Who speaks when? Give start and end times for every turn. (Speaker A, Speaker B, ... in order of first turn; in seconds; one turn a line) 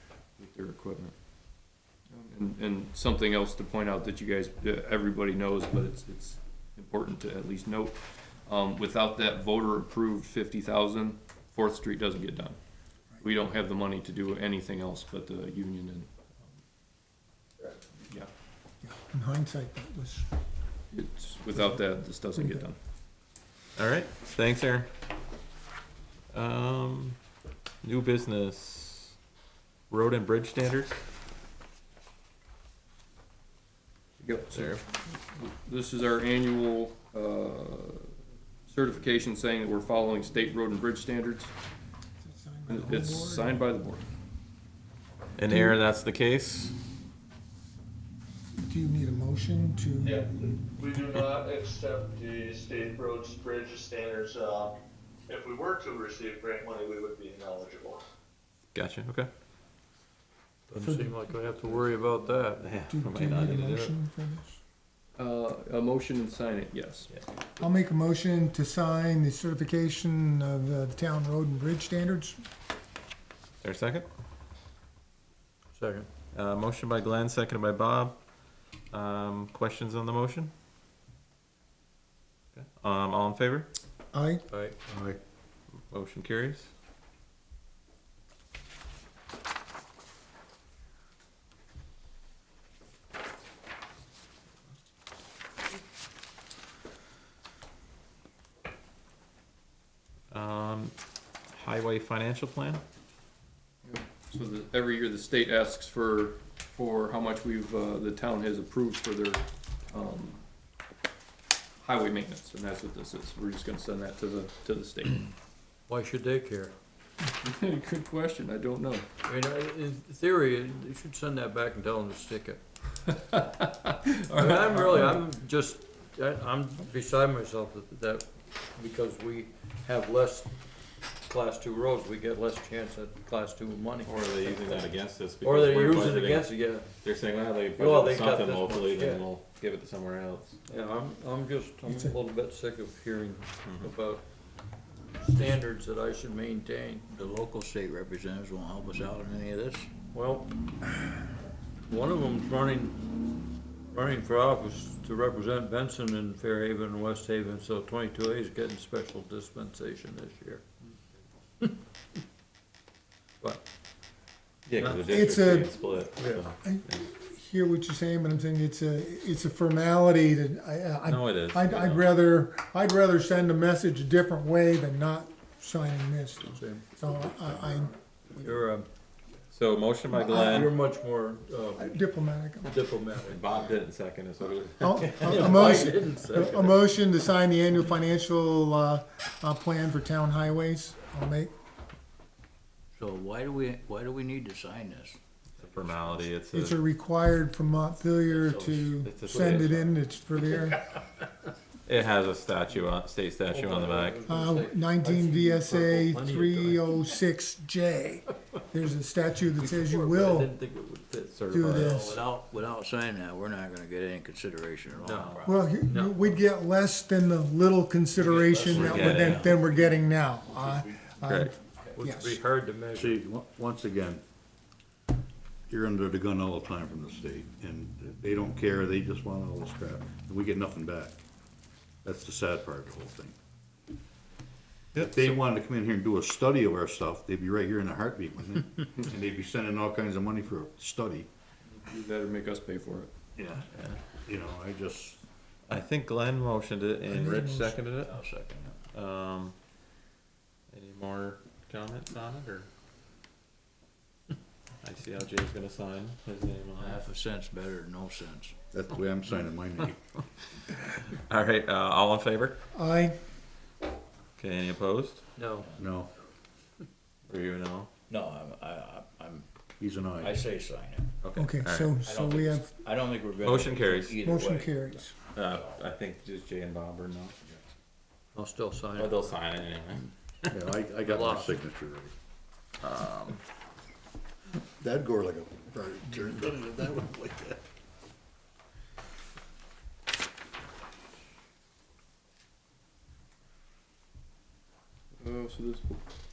Speaker A: 0.4-1.1
Speaker A: 2.1-12.6
Speaker A: 13.2-16.3
Speaker B: 18.8-20.3
Speaker A: 20.9-22.8
Speaker B: 21.5-22.6
Speaker C: 23.8-24.9
Speaker C: 26.3-27.2
Speaker C: 27.8-29.1
Speaker C: 29.9-30.9
Speaker A: 34.2-38.1
Speaker C: 34.5-34.8
Speaker A: 38.7-41.5
Speaker B: 42.2-43.6
Speaker A: 42.7-44.0
Speaker C: 45.4-46.7
Speaker B: 45.5-45.8
Speaker B: 48.6-50.2
Speaker D: 50.0-54.7
Speaker D: 55.3-58.0
Speaker C: 58.7-59.3
Speaker E: 60.7-62.8
Speaker B: 60.8-61.2
Speaker C: 62.6-63.9
Speaker B: 62.9-64.6
Speaker E: 63.5-63.8
Speaker A: 65.2-67.1
Speaker B: 67.6-72.4
Speaker C: 73.6-74.0
Speaker E: 75.7-76.1
Speaker C: 76.3-78.2
Speaker C: 78.9-80.5
Speaker C: 82.5-83.7
Speaker B: 84.1-84.4
Speaker E: 84.5-84.8
Speaker F: 84.9-85.2
Speaker C: 85.9-86.7
Speaker C: 100.3-100.9
Speaker C: 101.5-102.8
Speaker A: 103.8-110.4
Speaker A: 111.8-115.3
Speaker E: 115.9-116.7
Speaker A: 117.4-119.0
Speaker E: 119.2-122.6
Speaker A: 123.3-125.2
Speaker E: 124.3-130.5
Speaker E: 131.2-136.9
Speaker C: 134.0-140.6
Speaker E: 137.7-139.3
Speaker E: 140.7-144.2
Speaker B: 141.8-142.1
Speaker C: 143.6-143.9
Speaker E: 145.2-147.1
Speaker G: 147.1-149.9
Speaker E: 150.1-150.5
Speaker E: 151.9-153.0
Speaker E: 153.9-160.6
Speaker C: 164.6-167.1
Speaker E: 164.8-165.2
Speaker B: 165.1-165.9
Speaker E: 166.1-166.5
Speaker B: 166.6-178.6
Speaker C: 171.0-172.1
Speaker E: 176.4-176.9
Speaker E: 178.4-178.9
Speaker C: 179.5-180.7
Speaker E: 180.2-182.0
Speaker B: 181.8-182.8
Speaker E: 182.6-183.5
Speaker C: 183.2-185.9
Speaker B: 184.8-191.5
Speaker E: 185.2-186.8
Speaker G: 192.9-196.2
Speaker C: 195.6-196.8
Speaker B: 196.5-200.8
Speaker C: 198.2-200.0
Speaker C: 201.8-204.3
Speaker E: 203.5-207.2
Speaker B: 204.2-210.5
Speaker E: 209.5-211.7
Speaker C: 211.3-212.0
Speaker B: 211.5-212.2
Speaker G: 211.7-215.7
Speaker E: 215.0-216.4
Speaker C: 215.0-215.4
Speaker B: 215.4-222.4
Speaker G: 218.2-219.6
Speaker E: 218.2-218.8
Speaker C: 218.7-219.6
Speaker C: 221.2-221.5
Speaker E: 221.8-223.2
Speaker F: 222.9-224.2
Speaker F: 225.7-231.2
Speaker F: 232.0-233.3
Speaker C: 234.9-235.4
Speaker F: 234.9-241.3
Speaker A: 241.7-243.1
Speaker C: 243.7-244.0
Speaker F: 244.2-245.2
Speaker C: 245.7-249.6
Speaker B: 247.1-247.8
Speaker G: 248.0-248.8
Speaker C: 250.7-252.7
Speaker C: 254.8-257.0
Speaker G: 256.8-258.6
Speaker F: 258.7-260.0
Speaker C: 260.6-262.6
Speaker B: 262.7-263.1
Speaker C: 264.4-265.3
Speaker E: 265.3-265.7
Speaker G: 265.6-265.9
Speaker F: 265.8-266.1
Speaker C: 267.3-267.9
Speaker G: 268.1-269.4
Speaker F: 269.8-270.4
Speaker G: 270.2-271.1
Speaker C: 271.2-272.0
Speaker B: 271.4-272.7
Speaker G: 272.0-275.0
Speaker C: 273.4-274.2
Speaker B: 274.2-275.1
Speaker C: 275.3-277.4
Speaker G: 275.5-275.8
Speaker E: 278.3-279.2
Speaker C: 278.9-280.5
Speaker F: 280.5-282.1
Speaker E: 281.0-281.6
Speaker C: 282.8-283.4
Speaker F: 284.8-287.6
Speaker A: 295.2-296.0